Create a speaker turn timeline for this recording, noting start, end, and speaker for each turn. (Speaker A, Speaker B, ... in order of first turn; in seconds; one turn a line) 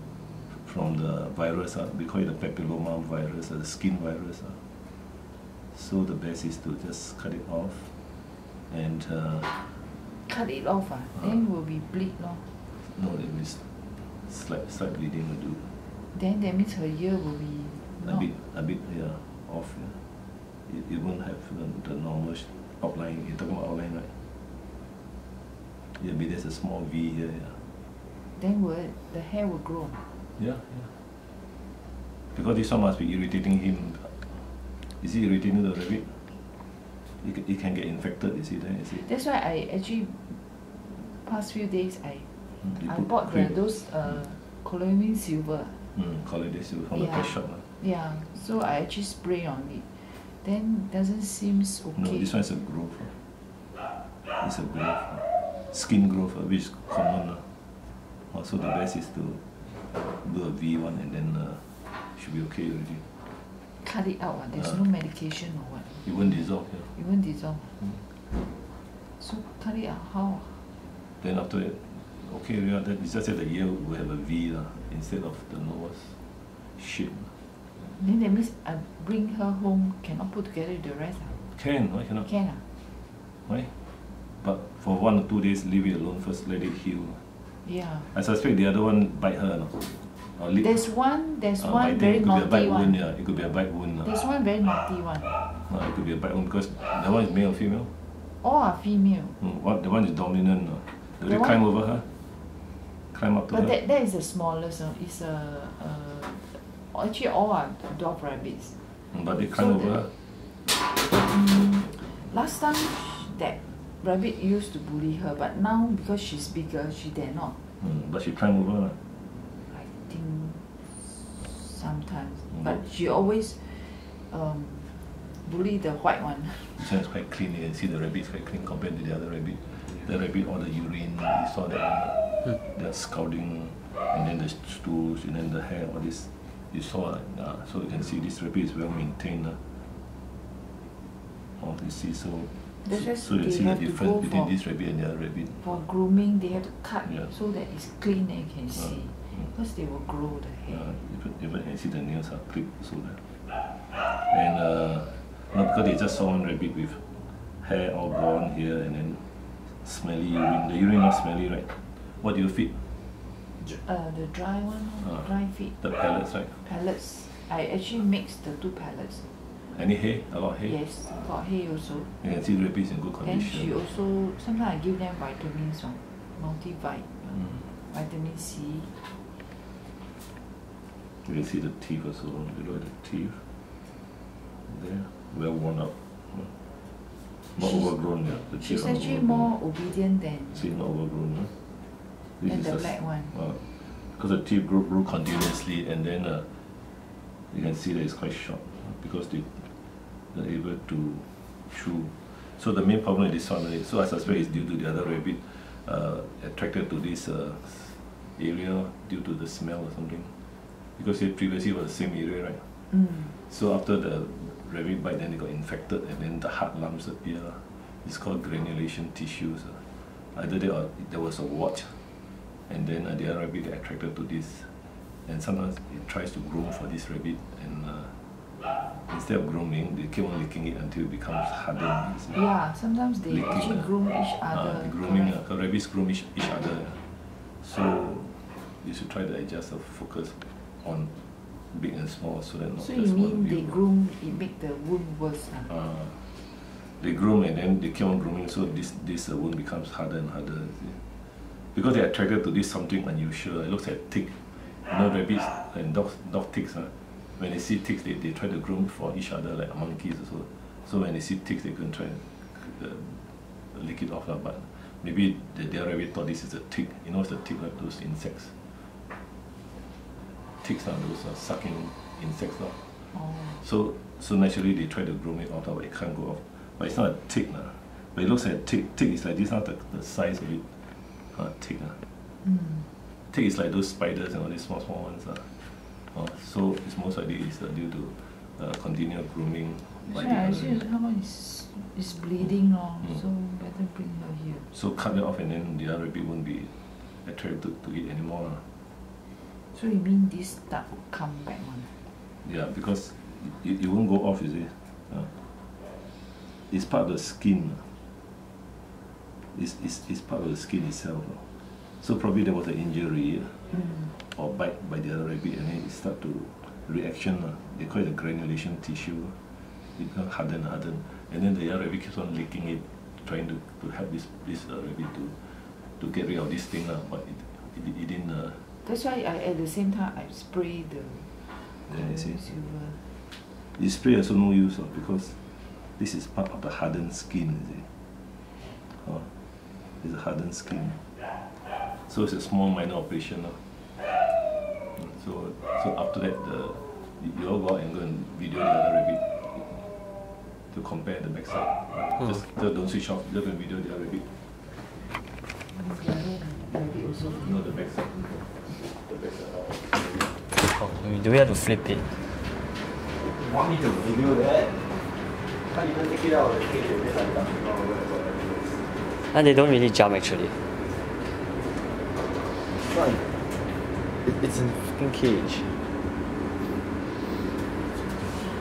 Speaker A: 0.5-4.6
Speaker A: 5.7-7.9
Speaker A: 8.7-9.7
Speaker B: 10.2-12.5
Speaker A: 12.7-15.7
Speaker B: 16.1-18.3
Speaker A: 18.0-20.0
Speaker A: 20.6-24.2
Speaker A: 25.9-27.7
Speaker B: 28.3-30.0
Speaker A: 30.4-31.0
Speaker A: 32.3-36.4
Speaker A: 37.1-39.0
Speaker B: 38.9-45.9
Speaker A: 42.6-43.6
Speaker A: 45.9-47.6
Speaker B: 46.9-52.3
Speaker A: 51.9-53.2
Speaker A: 54.4-57.6
Speaker A: 58.3-63.3
Speaker B: 63.8-67.8
Speaker A: 64.5-64.8
Speaker A: 66.0-66.9
Speaker B: 69.2-70.7
Speaker A: 71.2-77.4
Speaker B: 77.8-81.5
Speaker A: 81.5-82.3
Speaker B: 82.2-82.6
Speaker A: 83.5-87.3
Speaker B: 87.6-88.1
Speaker A: 88.0-90.9
Speaker B: 90.5-93.0
Speaker A: 91.6-94.2
Speaker B: 94.0-95.4
Speaker A: 95.5-98.0
Speaker B: 98.4-99.4
Speaker A: 99.4-102.1
Speaker B: 101.2-101.6
Speaker A: 103.1-103.7
Speaker B: 103.5-108.8
Speaker A: 109.1-110.1
Speaker B: 109.5-110.1
Speaker B: 110.9-117.6
Speaker A: 117.8-119.0
Speaker B: 119.6-126.8
Speaker A: 122.5-122.8
Speaker A: 126.8-139.8
Speaker A: 141.6-145.8
Speaker B: 142.8-144.6
Speaker B: 145.6-150.9
Speaker A: 147.0-147.3
Speaker A: 148.8-149.5
Speaker A: 150.7-162.8
Speaker B: 163.7-165.8
Speaker A: 165.8-166.6
Speaker B: 166.6-169.3
Speaker A: 169.7-170.8
Speaker B: 170.6-172.2
Speaker A: 172.2-173.8
Speaker B: 173.2-179.1
Speaker A: 181.2-183.4
Speaker A: 184.6-186.7
Speaker A: 187.5-189.5
Speaker B: 187.6-190.7
Speaker A: 190.5-191.5
Speaker A: 192.4-196.6
Speaker B: 192.4-193.4
Speaker A: 197.5-199.7
Speaker A: 200.3-210.4
Speaker A: 210.9-222.1
Speaker B: 212.9-213.3
Speaker A: 222.7-224.7
Speaker A: 225.2-228.2
Speaker A: 228.8-232.4
Speaker B: 232.3-235.4
Speaker A: 233.3-233.9
Speaker A: 234.5-243.8
Speaker B: 242.8-245.7
Speaker A: 245.6-268.8
Speaker A: 270.6-282.0
Speaker B: 273.1-273.6
Speaker B: 282.4-283.0
Speaker A: 283.3-290.9
Speaker B: 290.0-294.7
Speaker A: 294.7-298.7
Speaker B: 299.7-302.0
Speaker A: 302.4-305.5
Speaker A: 306.7-308.0
Speaker A: 309.5-319.4
Speaker B: 313.7-314.1
Speaker A: 319.9-328.7
Speaker B: 328.8-333.1
Speaker A: 331.9-332.4
Speaker A: 333.7-337.9
Speaker A: 338.6-354.4
Speaker B: 355.7-357.9
Speaker A: 357.3-360.4
Speaker C: 360.6-362.1
Speaker D: 363.2-365.0
Speaker D: 365.6-368.9
Speaker C: 369.3-370.6
Speaker D: 372.7-373.3
Speaker D: 374.2-375.8